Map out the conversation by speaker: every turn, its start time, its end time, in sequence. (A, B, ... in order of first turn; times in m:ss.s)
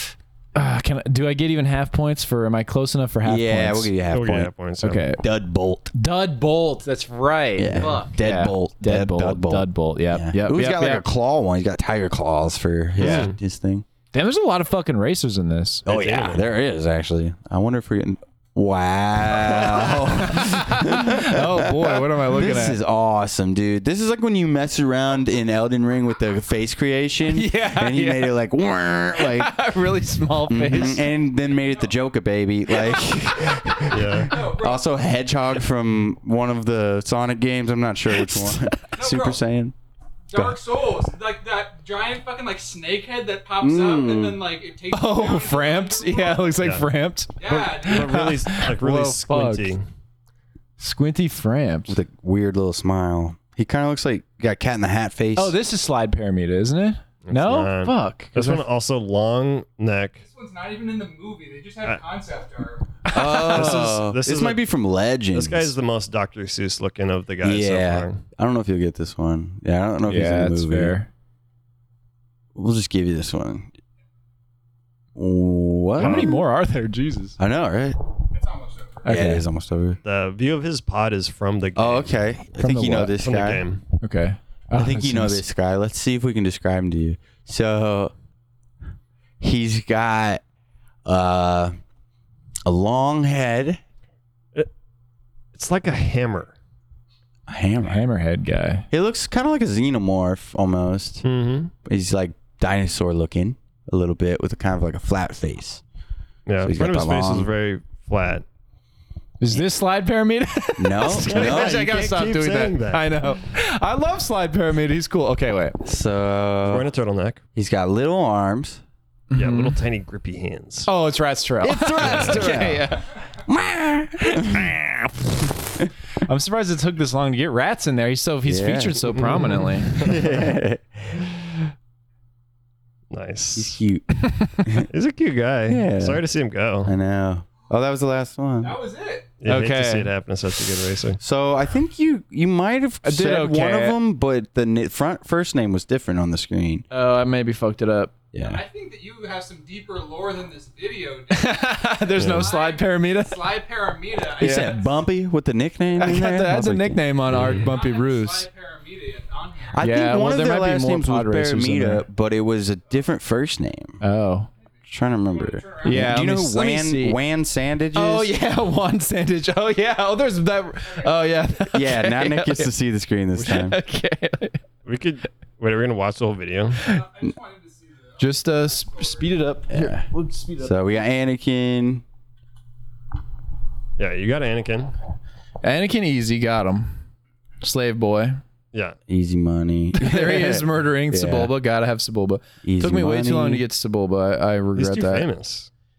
0:00.6-0:03.9 A
0:03.2-0:04.5 B
0:04.1-0:05.1 C
0:04.8-0:05.2 A
0:05.2-0:05.9 B
0:05.9-0:11.0 A
0:07.6-0:13.8 B
0:13.0-0:13.4 C
0:14.1-0:15.9 A
0:15.9-0:16.5 C
0:15.9-0:29.6 B
0:19.9-0:22.8 A
0:27.3-0:28.4 A
0:29.2-0:31.1 A
0:30.5-0:39.7 B
0:33.9-0:34.4 C
0:34.3-0:34.9 D
0:38.1-0:38.8 A
0:39.0-0:39.4 D
0:40.3-0:46.6 D
0:40.3-0:40.6 B
0:43.6-0:44.5 B
0:44.9-0:49.8 A
0:46.6-0:46.9 C
0:47.4-0:48.2 D
0:47.5-0:49.8 C
0:50.8-0:52.0 A
0:51.9-0:55.6 B
0:55.4-0:58.6 A
0:57.3-1:00.2 C
1:00.2-1:02.9 D
1:03.0-1:04.0 A
1:03.1-1:05.8 B
1:03.4-1:04.6 C
1:05.3-1:08.2 C
1:07.4-1:11.0 B
1:10.1-1:11.1 A
1:12.6-1:13.7 B
1:15.2-1:16.3 B
1:16.0-1:17.4 A
1:16.0-1:16.4 C
1:17.4-1:18.0 B
1:18.3-1:19.1 D
1:19.0-1:19.4 A
1:19.1-1:20.0 B
1:20.0-1:22.1 C
1:21.8-1:23.7 B
1:22.6-1:23.2 A
1:23.2-1:23.8 C
1:24.0-1:25.4 A
1:24.7-1:28.1 B
1:29.4-1:30.4 B
1:31.0-1:31.7 B
1:32.7-1:33.8 B
1:35.6-1:36.6 C
1:37.5-1:38.0 B
1:37.8-1:38.9 A
1:38.9-1:41.2 B
1:41.2-1:41.7 C
1:41.9-1:45.8 B
1:46.5-1:48.4 C
1:46.6-1:47.5 B
1:49.4-1:55.8 A
1:50.8-1:51.8 B
1:51.2-1:53.1 C
1:55.8-1:56.9 B
1:56.6-1:57.4 C
1:57.6-1:58.8 B
1:59.3-1:59.8 A
1:59.4-2:00.9 C
2:00.9-2:03.1 A
2:01.6-2:02.9 B
2:02.0-2:02.4 C
2:03.4-2:04.8 B
2:04.2-2:05.5 A
2:06.2-2:10.0 A
2:08.5-2:09.2 B
2:09.2-2:10.4 C
2:10.0-2:11.3 B
2:13.1-2:13.8 C
2:13.6-2:14.1 B
2:14.3-2:14.7 A
2:14.6-2:14.9 B
2:14.9-2:16.9 C
2:15.7-2:16.2 B
2:16.8-2:18.8 B
2:18.6-2:19.3 D
2:19.4-2:21.2 C
2:19.5-2:20.1 A
2:21.2-2:26.8 B
2:23.0-2:24.0 A
2:26.9-2:28.1 A
2:28.3-2:28.6 B
2:28.4-2:35.0 D
2:31.3-2:33.5 A
2:32.2-2:32.5 C
2:34.4-2:34.8 A
2:34.4-2:37.4 B
2:36.0-2:38.5 A
2:37.5-2:39.8 D
2:39.7-2:44.0 B
2:39.8-2:42.0 A
2:44.0-2:44.5 A
2:44.9-2:48.3 B
2:45.2-2:46.2 D
2:45.8-2:47.2 A
2:47.9-2:52.7 A
2:51.7-2:53.8 B
2:53.4-2:54.6 A
2:54.8-2:56.8 C
2:56.8-2:59.3 D
2:58.2-3:00.8 A
2:59.7-3:00.1 B
3:00.6-3:02.0 B
3:04.0-3:04.9 C
3:05.6-3:07.0 A
3:07.6-3:08.4 A
3:09.1-3:11.5 B
3:10.0-3:15.3 A
3:12.6-3:13.6 B
3:14.8-3:15.7 C